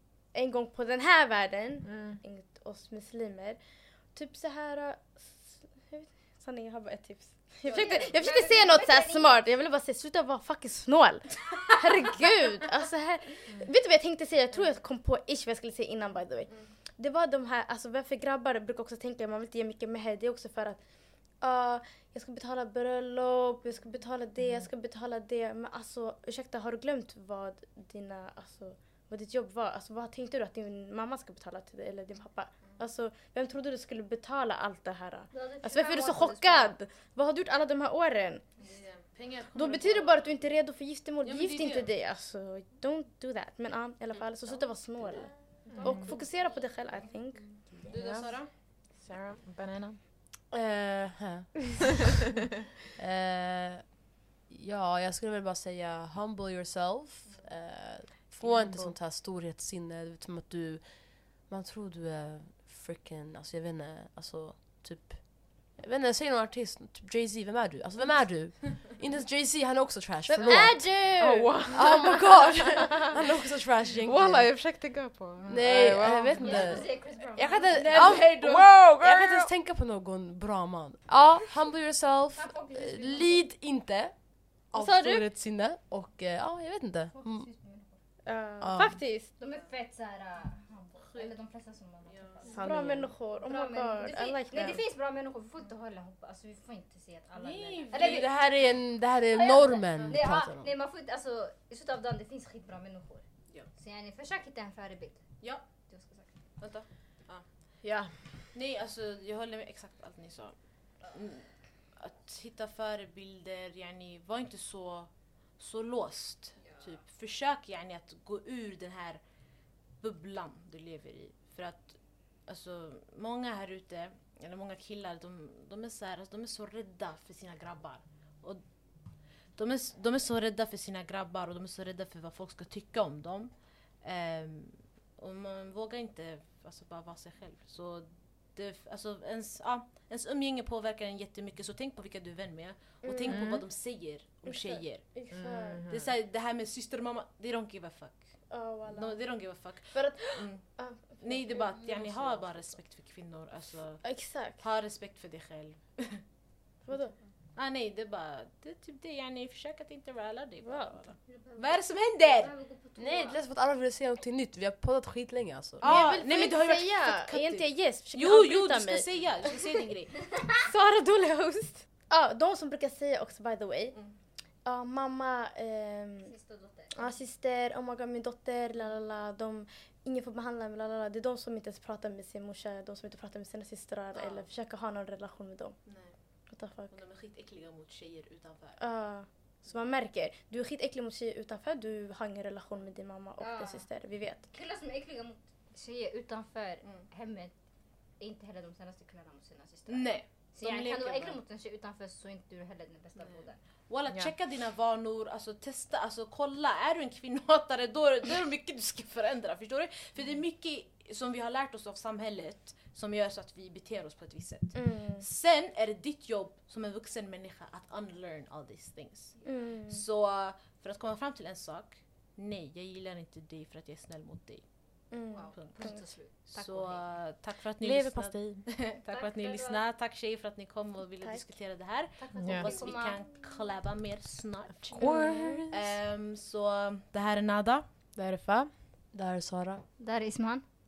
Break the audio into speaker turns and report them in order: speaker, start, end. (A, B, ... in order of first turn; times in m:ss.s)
0:00.3-0:03.6 A
0:01.8-0:02.2 B
0:04.1-0:20.8 A
0:07.6-0:08.2 C
0:07.7-0:09.4 D
0:16.5-0:16.7 C
0:21.4-0:38.4 A
0:24.4-0:24.7 B
0:35.3-0:36.8 D
0:38.6-0:40.2 C
0:39.5-0:47.6 A
0:41.2-0:41.9 C
0:45.6-0:46.7 D
0:45.7-0:46.1 B
0:47.8-0:48.5 C
0:47.9-0:48.3 B
0:48.9-0:50.0 B
0:50.5-0:51.8 E
0:53.0-1:11.1 E
0:58.4-0:59.0 B
1:10.3-1:11.8 A
1:11.2-1:13.1 B
1:11.7-1:14.5 E
1:12.8-1:13.1 A
1:14.0-1:16.9 B
1:15.5-1:27.5 E
1:16.4-1:17.9 D
1:17.7-1:18.7 C
1:17.8-1:19.5 B
1:21.1-1:21.4 B
1:22.3-1:23.4 D
1:24.7-1:25.2 A
1:27.1-1:28.0 D
1:28.2-1:29.3 A
1:28.6-1:29.0 E
1:29.4-1:32.9 D
1:31.0-1:31.4 C
1:32.0-1:32.6 C
1:32.4-1:33.1 E
1:32.6-1:34.8 A
1:33.4-1:38.3 D
1:37.3-1:38.3 C
1:37.9-1:40.7 E
1:39.3-1:43.2 D
1:40.0-1:40.2 C
1:43.8-1:46.4 D
1:46.6-1:47.4 C
1:47.8-1:48.1 B
1:48.5-1:59.2 C
2:00.0-2:08.6 C
2:09.5-2:13.5 C
2:14.0-2:25.0 C
2:23.0-2:23.6 A
2:23.3-2:23.6 B
2:24.4-2:25.8 A
2:25.3-2:26.1 B
2:25.8-2:28.3 C
2:28.5-2:29.4 A
2:28.8-2:30.7 C
2:29.9-2:32.0 A
2:31.2-2:34.0 C
2:34.0-2:34.6 A
2:34.6-2:36.2 C
2:36.9-2:37.1 A
2:37.5-2:42.5 C
2:40.6-2:41.0 A
2:41.3-2:43.4 D
2:43.0-2:45.9 E
2:45.8-2:50.2 C
2:45.8-2:49.8 A
2:50.6-2:54.0 A
2:54.6-2:56.3 A
2:56.2-2:56.9 D
2:56.9-3:05.8 A
3:04.1-3:04.5 C
3:05.8-3:06.2 C
3:06.5-3:07.0 A
3:06.9-3:08.8 C
3:08.8-3:14.4 A
3:13.4-3:13.8 D
3:14.5-3:17.5 D
3:16.8-3:17.1 C
3:18.2-3:23.6 D
3:19.9-3:21.4 C
3:23.2-3:44.6 C
3:34.7-3:35.2 A
3:39.4-3:40.0 A
3:45.1-3:46.0 A
3:45.3-3:47.0 D
3:45.5-3:45.9 C
3:46.5-3:55.1 C
3:47.8-3:48.6 B
3:49.0-3:49.8 D
3:51.2-3:51.5 A
3:52.2-3:53.3 D
3:52.4-3:52.7 B
3:54.9-3:55.8 B
3:54.9-3:55.7 A
3:55.7-3:57.8 C
3:58.2-3:58.7 B
3:59.1-3:59.8 E
4:00.0-4:00.6 D